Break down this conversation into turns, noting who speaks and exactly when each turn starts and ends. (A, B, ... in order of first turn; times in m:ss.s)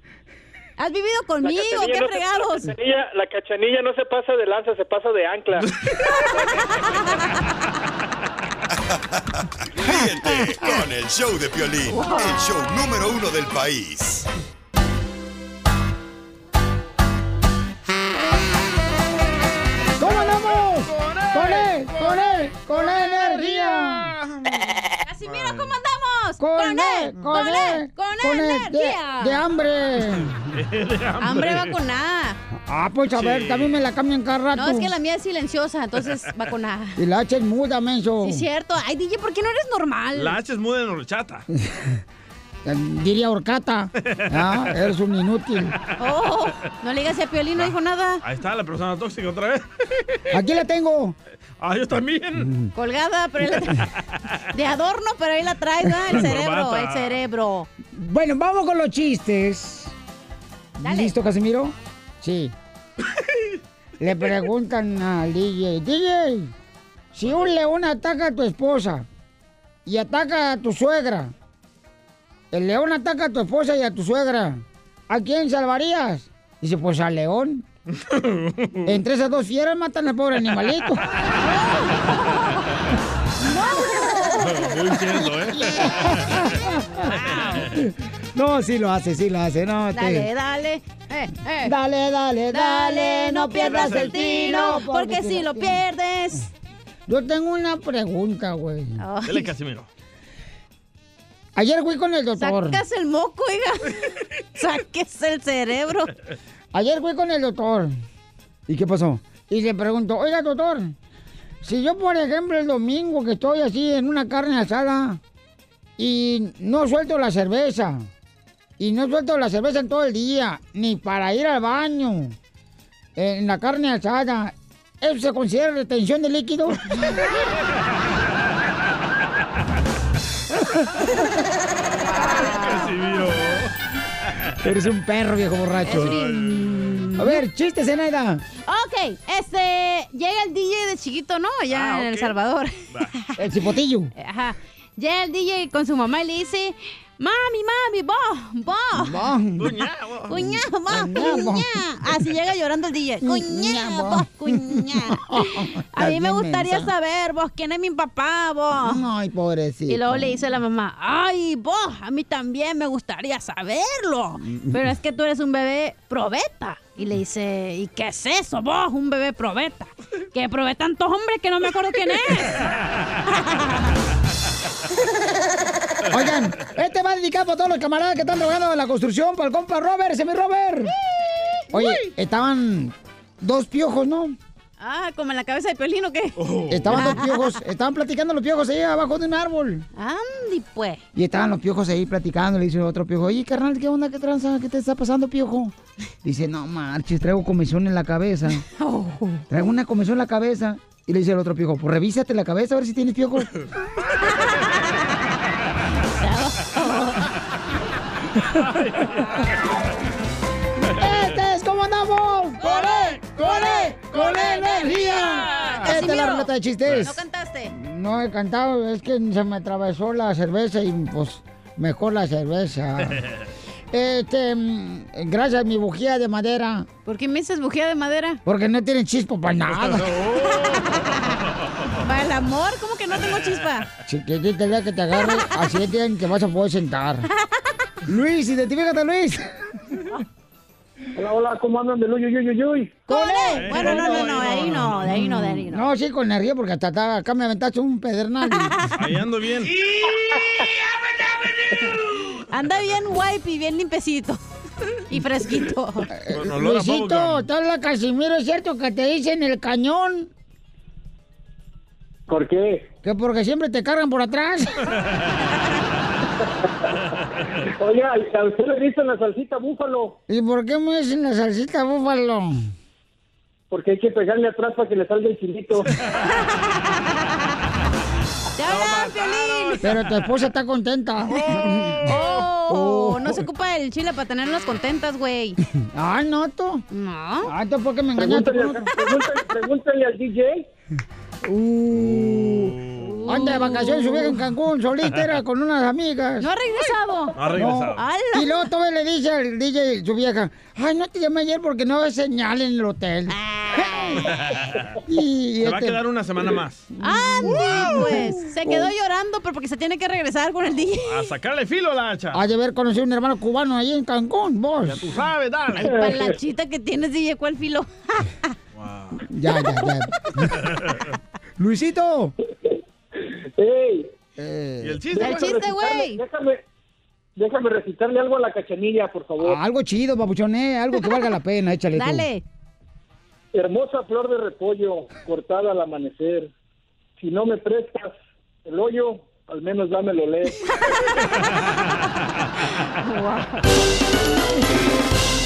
0:00.8-0:02.7 A
0:02.8-0:05.5 B
0:05.6-0:05.9 C
0:06.3-0:06.8 A
0:09.8-0:14.2 D
0:11.9-0:12.4 A
0:20.0-0:24.1 E
0:20.0-0:24.4 C
0:25.0-0:29.4 A
0:25.2-0:25.8 C
0:26.4-0:30.4 E
0:30.0-0:31.8 C
0:31.2-0:32.4 A
0:32.6-0:34.9 E
0:33.1-0:33.8 C
0:34.5-0:37.0 A
0:37.0-0:38.4 E
0:38.2-0:40.4 A
0:40.1-0:41.4 C
0:41.5-0:42.0 E
0:42.6-0:45.8 E
0:44.0-0:44.7 C
0:46.0-0:48.2 A
0:47.5-0:50.2 C
0:50.3-0:51.2 E
0:51.6-0:52.5 C
0:52.4-0:52.7 E
0:52.7-0:53.8 A
0:54.5-0:57.7 A
0:56.1-0:57.2 C
0:57.9-0:59.9 E
1:00.8-1:02.5 E
1:00.8-1:01.1 A
1:04.0-1:06.5 E
1:07.1-1:09.0 E
1:09.8-1:11.3 E
1:12.5-1:17.6 E
1:18.0-1:18.9 C
1:18.8-1:21.0 E
1:21.4-1:22.7 A
1:23.4-1:24.8 A
1:24.4-1:26.5 C
1:25.5-1:27.1 E
1:27.0-1:27.6 A
1:27.6-1:30.3 E
1:29.9-1:31.7 A
1:31.6-1:35.8 E
1:32.5-1:36.5 A
1:33.6-1:34.4 C
1:37.1-1:39.0 E
1:39.0-1:39.5 A
1:39.2-1:39.9 C
1:41.6-1:42.8 E
1:42.4-1:43.9 A
1:44.6-1:46.1 A
1:46.7-1:47.9 E
1:48.7-1:50.9 E
1:51.6-1:55.2 E
1:56.0-1:58.1 E
1:58.8-2:02.4 E
2:03.2-2:06.8 E
2:12.2-2:12.9 A
2:12.3-2:13.7 C
2:14.6-2:16.2 E
2:15.8-2:17.4 A
2:15.9-2:17.0 C
2:17.2-2:18.4 E
2:18.6-2:23.3 A
2:21.7-2:22.4 C
2:23.4-2:24.1 E
2:24.2-2:29.2 A
2:29.0-2:29.7 E
2:29.6-2:30.4 C
2:30.3-2:39.0 A
2:30.9-2:31.7 E
2:33.2-2:36.9 E
2:38.8-2:40.3 E
2:39.9-2:52.7 A
2:44.4-2:44.8 E
2:53.3-2:53.6 A
2:56.1-3:00.9 E
3:01.7-3:04.4 E
3:04.8-3:06.3 A
3:06.4-3:07.2 C
3:06.7-3:09.8 E
3:06.9-3:07.6 A
3:10.0-3:11.0 A
3:11.1-3:18.6 E
3:18.8-3:19.4 A
3:19.5-3:23.5 E
3:26.1-3:27.3 A
3:28.6-3:29.1 C
3:31.0-3:37.1 E
3:32.6-3:36.5 A
3:35.5-3:35.9 C
3:36.8-3:37.1 C
3:37.0-3:37.7 A
3:37.7-3:43.2 E
3:43.0-3:43.3 C
3:43.9-3:46.9 E
3:47.0-3:48.4 A
3:48.4-3:50.1 E
3:49.7-3:51.0 C
3:50.4-3:51.4 A
3:52.0-3:53.9 A
3:54.0-3:57.3 E
3:55.1-3:55.5 A
3:58.0-3:59.4 E
4:01.2-4:03.0 F
4:03.1-4:05.9 A
4:03.1-4:08.8 E
4:03.5-4:05.2 C
4:08.5-4:08.9 A
4:08.9-4:09.7 C
4:12.5-4:14.4 A
4:15.1-4:16.1 A
4:16.1-4:20.3 E
4:16.3-4:17.4 C
4:22.3-4:22.8 F
4:23.0-4:24.7 E
4:27.8-4:30.2 F
4:30.3-4:32.7 E
4:33.7-4:35.9 F
4:36.2-4:37.3 A
4:38.6-4:39.8 A
4:38.6-4:40.1 C
4:39.8-4:42.1 E
4:41.3-4:42.5 C
4:42.0-4:45.6 A
4:42.7-4:43.4 E
4:45.9-4:46.8 E
4:46.9-4:47.5 A
4:47.4-4:49.0 E
4:48.2-4:50.6 F
4:51.4-4:52.8 E
4:51.9-4:53.3 C
4:53.0-4:54.3 A
4:53.3-4:56.5 E
4:56.4-4:58.6 A
4:57.4-4:58.0 C
4:57.6-5:04.3 E
5:03.4-5:04.0 A
5:04.3-5:04.9 C
5:05.0-5:06.0 E
5:05.6-5:06.9 C
5:07.0-5:11.3 A
5:07.0-5:08.9 E
5:07.4-5:08.2 C
5:11.0-5:12.4 C
5:12.3-5:15.0 E
5:14.8-5:16.2 C
5:15.8-5:18.3 A
5:15.8-5:16.3 F
5:18.8-5:19.2 C
5:19.3-5:20.5 E
5:21.6-5:22.3 E
5:23.6-5:24.1 F
5:24.4-5:25.0 E
5:24.8-5:25.6 C
5:25.1-5:26.6 F
5:25.2-5:26.2 A
5:27.4-5:29.6 F
5:29.4-5:32.3 E
5:31.9-5:32.4 A
5:33.5-5:36.5 F
5:37.2-5:40.5 F
5:43.0-5:43.6 A